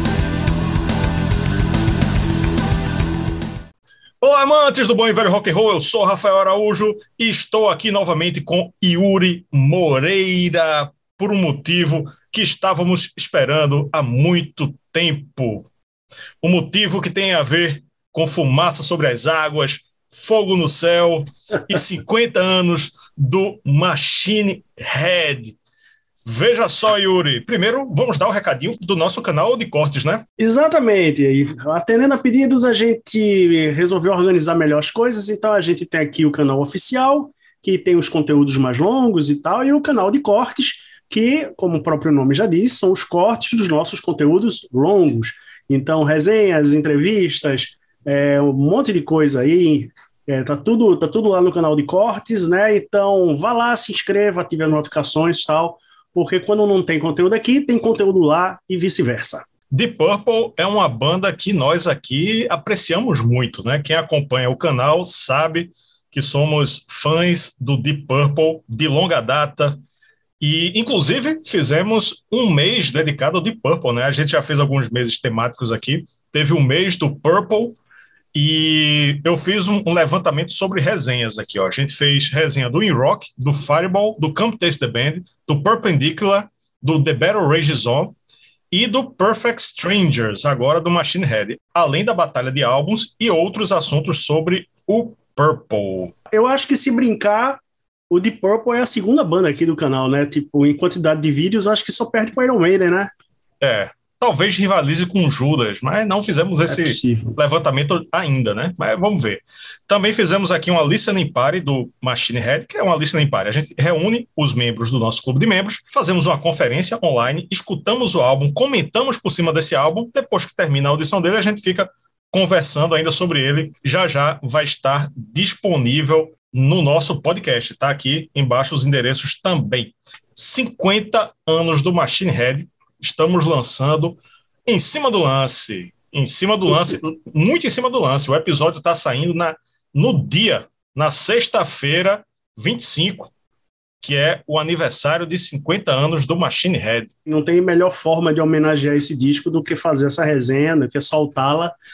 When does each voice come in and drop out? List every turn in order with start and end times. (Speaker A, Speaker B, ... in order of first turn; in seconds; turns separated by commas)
Speaker A: 4.2-15.7, Speaker A: 16.4-25.6, Speaker A: 26.2-30.2, Speaker B: 30.4-59.4, Speaker A: 59.7-69.8, Speaker A: 70.4-77.8, Speaker A: 78.3-88.1, Speaker A: 88.7-96.1, Speaker B: 96.3-103.1, Speaker A: 103.6-143.3, Speaker B: 106.7-107.4, Speaker A: 144.0-147.1, Speaker B: 147.3-151.8